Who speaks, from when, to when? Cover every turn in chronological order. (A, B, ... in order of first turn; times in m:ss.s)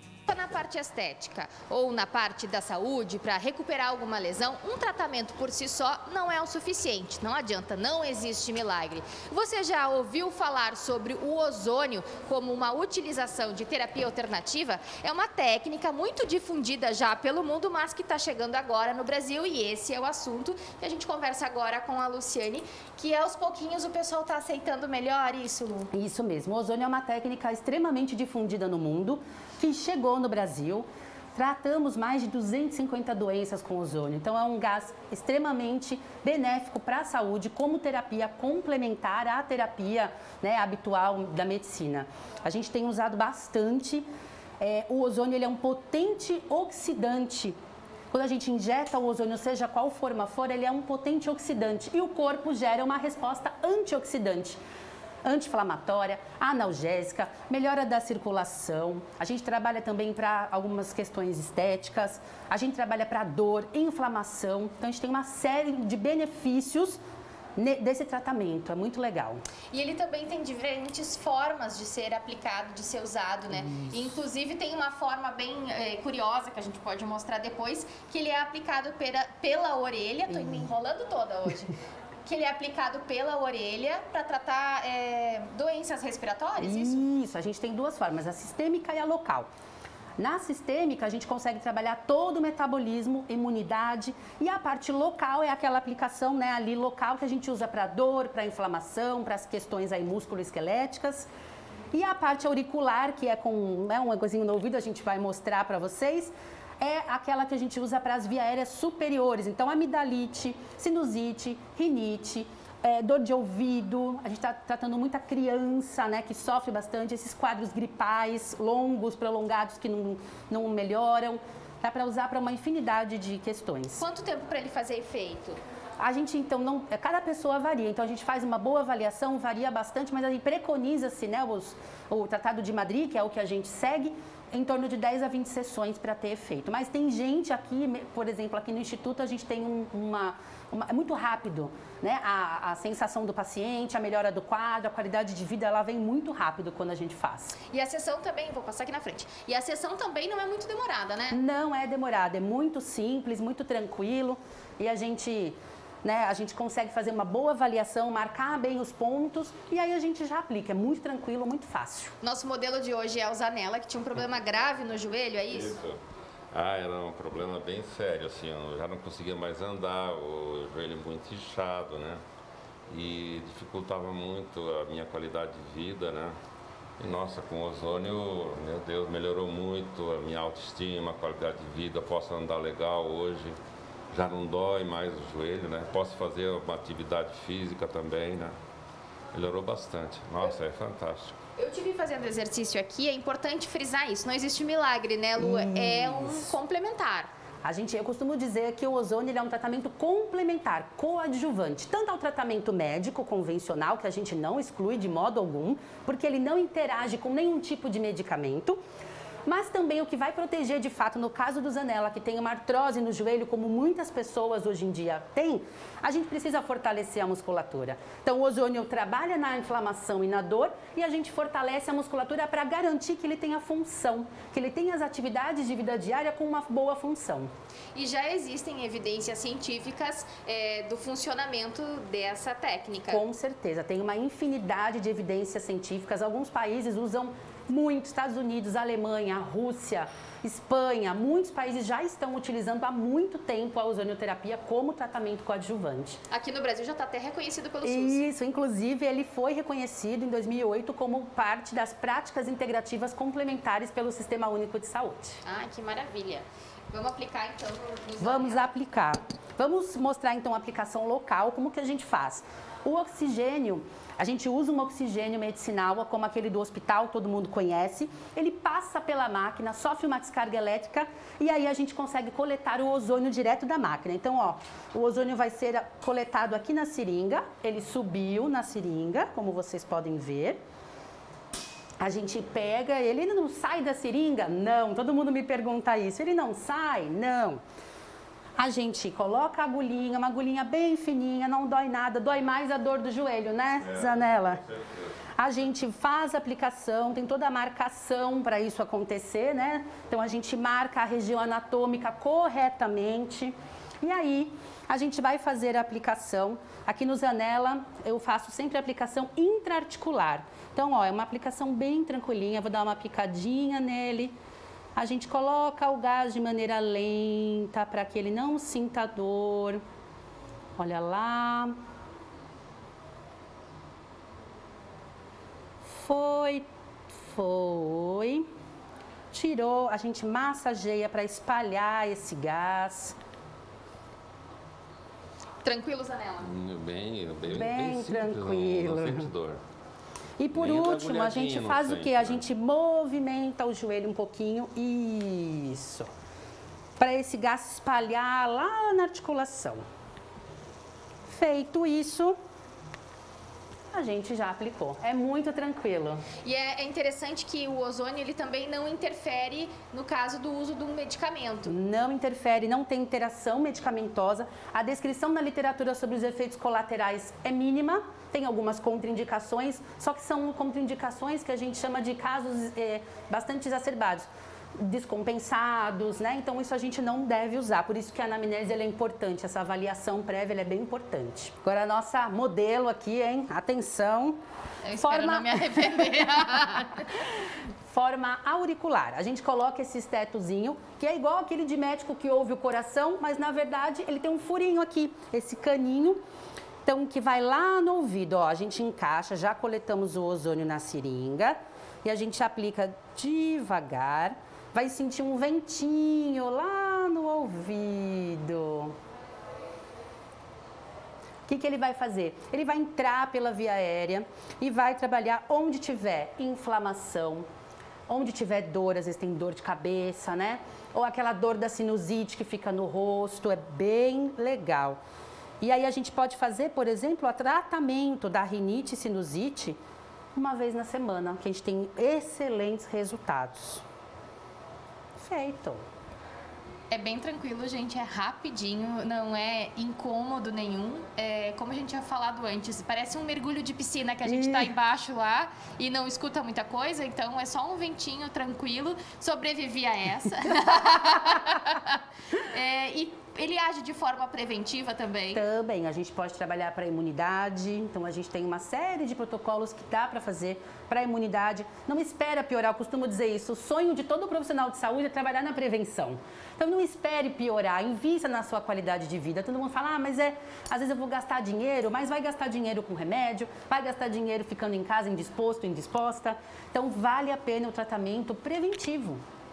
0:00.3-0:25.9 A
0:25.9-0:44.0 B
0:44.6-0:47.6 B
0:48.1-0:54.6 B
0:55.2-1:07.0 B
1:07.6-1:09.4 B
1:09.7-1:21.7 A
1:20.3-1:20.7 B
1:22.2-1:27.0 A
1:26.6-1:29.5 B
1:30.2-1:41.3 B
1:41.9-2:04.0 B
2:04.0-2:05.6 A
2:06.0-2:27.6 B
2:27.7-2:31.4 A
2:31.3-2:42.1 B
2:42.2-2:45.7 A
2:45.5-2:46.0 C
2:46.5-2:52.2 C
2:52.9-2:56.3 C
2:57.0-3:03.6 C
3:04.1-3:08.5 C
3:09.3-3:11.3 C
3:11.6-3:17.3 A
3:15.4-3:16.5 B
3:17.6-3:28.8 B
3:29.4-3:47.5 B
3:47.9-3:53.2 A
3:53.1-4:06.2 B
4:06.3-4:08.2 A
4:07.8-4:15.4 B
4:15.4-4:18.6 A
4:18.2-4:40.6 B
4:42.0-4:47.6 B
4:48.6-4:54.6 B
4:53.8-4:55.1 C
4:55.4-5:14.3 B
5:15.0-5:19.8 B
5:20.8-5:21.8 B
5:25.8-5:28.4 B
5:29.3-5:33.2 B
5:35.6-5:36.5 A
5:36.4-5:39.6 C
5:37.5-5:39.3 B
5:40.4-5:46.1 B
5:40.5-5:42.4 C
5:47.0-5:49.8 B
5:51.3-5:52.4 B
5:53.9-5:56.2 B
5:56.4-6:01.7 A
6:01.7-6:24.4 B
6:24.8-6:27.0 A
6:25.0-6:25.6 B
6:27.9-6:36.2 B
6:36.8-6:48.9 B
6:51.5-6:57.4 B
6:58.1-7:05.0 B
7:05.6-7:09.8 B
7:10.3-7:13.8 B
7:15.2-7:15.8 B
7:16.9-7:35.4 A
7:24.2-7:24.7 B
7:35.3-7:59.2 B